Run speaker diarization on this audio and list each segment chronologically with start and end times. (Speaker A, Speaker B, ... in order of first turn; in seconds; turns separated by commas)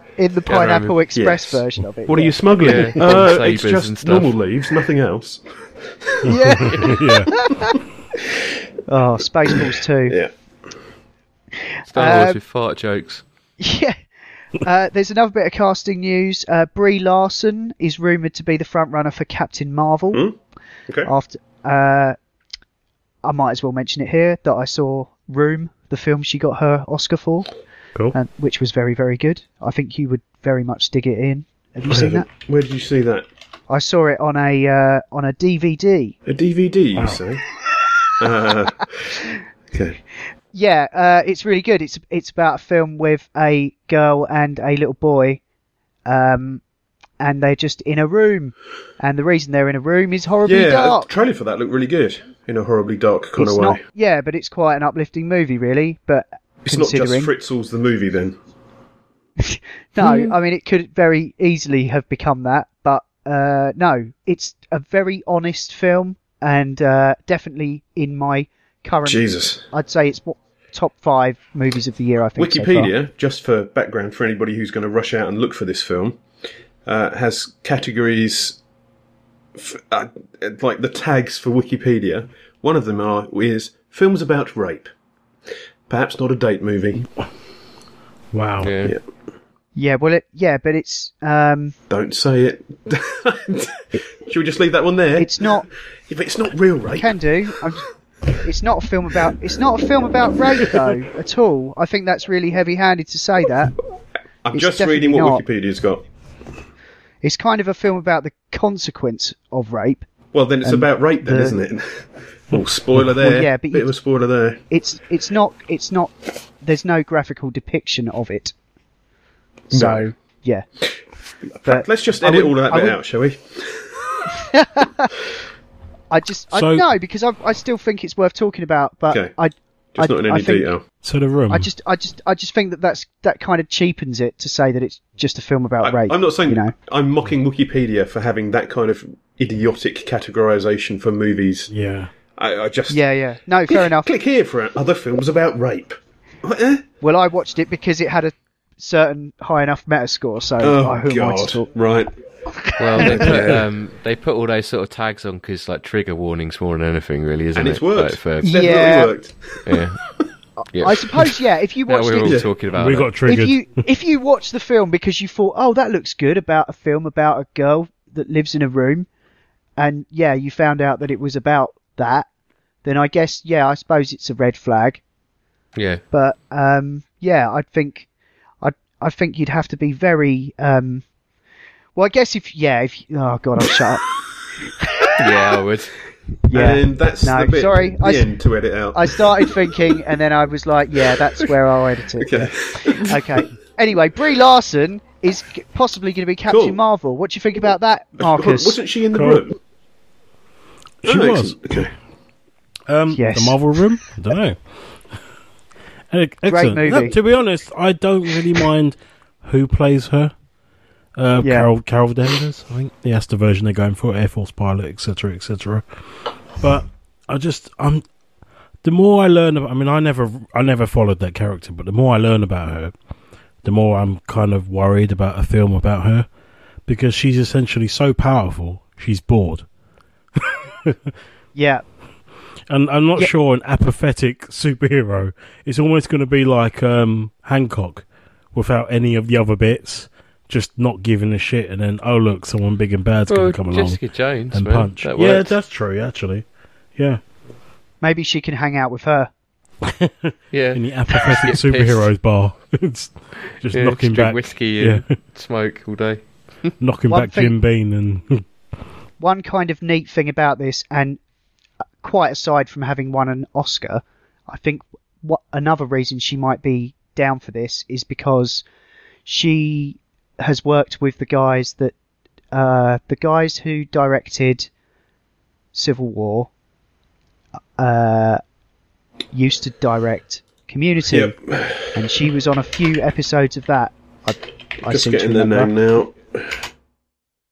Speaker A: 0.2-2.9, Speaker B: 0.5-0.9, Speaker C: 1.1-6.2, Speaker B: 2.6-4.3, Speaker D: 6.3-7.3, Speaker A: 6.3-7.8, Speaker A: 8.9-10.2, Speaker A: 11.9-12.4, Speaker B: 11.9-13.2, Speaker A: 13.6-14.0, Speaker A: 14.6-20.2, Speaker A: 21.1-22.2, Speaker A: 23.2-27.5, Speaker A: 28.1-32.3, Speaker C: 31.9-33.3, Speaker A: 33.7-36.2, Speaker C: 36.3-37.4, Speaker D: 37.0-37.2, Speaker C: 38.2-39.2, Speaker C: 39.7-40.0, Speaker A: 40.5-45.4, Speaker A: 46.1-46.6, Speaker A: 47.2-51.1, Speaker C: 50.5-53.8, Speaker A: 53.4-57.3, Speaker C: 56.6-58.4, Speaker A: 59.4-72.9, Speaker C: 69.0-69.7, Speaker C: 72.4-76.2, Speaker C: 76.9-78.6, Speaker C: 79.6-84.9, Speaker C: 85.9-87.1, Speaker D: 88.3-88.7, Speaker B: 88.6-89.0, Speaker A: 89.8-91.8, Speaker C: 91.9-97.2, Speaker A: 95.2-95.7, Speaker A: 97.0-97.8, Speaker A: 98.4-103.8, Speaker C: 104.5-106.0, Speaker A: 104.5-105.4, Speaker A: 107.2-110.1, Speaker C: 110.3-114.6, Speaker A: 110.6-111.6, Speaker A: 113.2-113.9, Speaker A: 114.7-118.5, Speaker C: 119.7-120.1, Speaker A: 119.7-120.7, Speaker C: 121.5-124.0, Speaker A: 121.7-123.0, Speaker A: 124.3-125.1, Speaker A: 126.1-130.7, Speaker D: 126.5-126.9, Speaker C: 130.0-130.8, Speaker D: 131.0-131.7, Speaker A: 131.5-136.7, Speaker C: 135.8-141.7, Speaker D: 141.7-142.1, Speaker C: 142.4-143.0, Speaker A: 142.9-144.1, Speaker C: 143.7-146.8, Speaker A: 147.0-151.7, Speaker C: 150.6-152.1, Speaker A: 152.5-153.5, Speaker B: 152.8-158.5, Speaker C: 153.0-153.6, Speaker C: 157.6-159.8, Speaker A: 158.4-159.1, Speaker B: 159.7-160.0, Speaker A: 160.6-162.4, Speaker B: 160.7-161.1, Speaker B: 161.9-163.1, Speaker C: 162.2-162.5, Speaker D: 162.7-163.6, Speaker A: 163.2-169.1, Speaker A: 169.8-172.3, Speaker A: 172.8-175.0, Speaker B: 175.8-176.0, Speaker A: 176.1-178.1, Speaker A: 178.6-181.0, Speaker A: 182.0-184.0, Speaker A: 184.8-185.1, Speaker B: 185.2-185.9, Speaker A: 186.5-188.3, Speaker C: 186.5-189.8, Speaker A: 188.9-198.8, Speaker C: 192.2-193.5, Speaker C: 196.5-196.8, Speaker C: 198.2-199.6, Speaker D: 199.1-199.4, Speaker D: 201.0-201.6, Speaker C: 201.1-201.9, Speaker D: 202.9-204.6, Speaker A: 203.1-203.8, Speaker D: 206.1-210.3, Speaker A: 206.5-207.2, Speaker D: 211.2-215.9, Speaker A: 211.4-211.7, Speaker D: 216.6-218.0, Speaker D: 218.8-222.9, Speaker D: 223.6-226.3, Speaker D: 226.9-229.7, Speaker D: 230.4-231.1, Speaker A: 231.6-231.8, Speaker D: 232.7-246.4, Speaker B: 243.3-245.5, Speaker A: 248.0-249.3, Speaker D: 249.8-255.1, Speaker B: 250.5-252.1, Speaker B: 253.7-256.7, Speaker D: 256.8-258.4, Speaker A: 257.1-257.6, Speaker A: 259.2-261.2, Speaker A: 262.0-268.6, Speaker A: 269.3-271.9, Speaker A: 272.5-274.7, Speaker A: 275.7-276.5, Speaker A: 277.8-278.4, Speaker A: 279.3-281.4, Speaker C: 281.1-281.9, Speaker A: 281.9-285.7, Speaker C: 284.8-286.6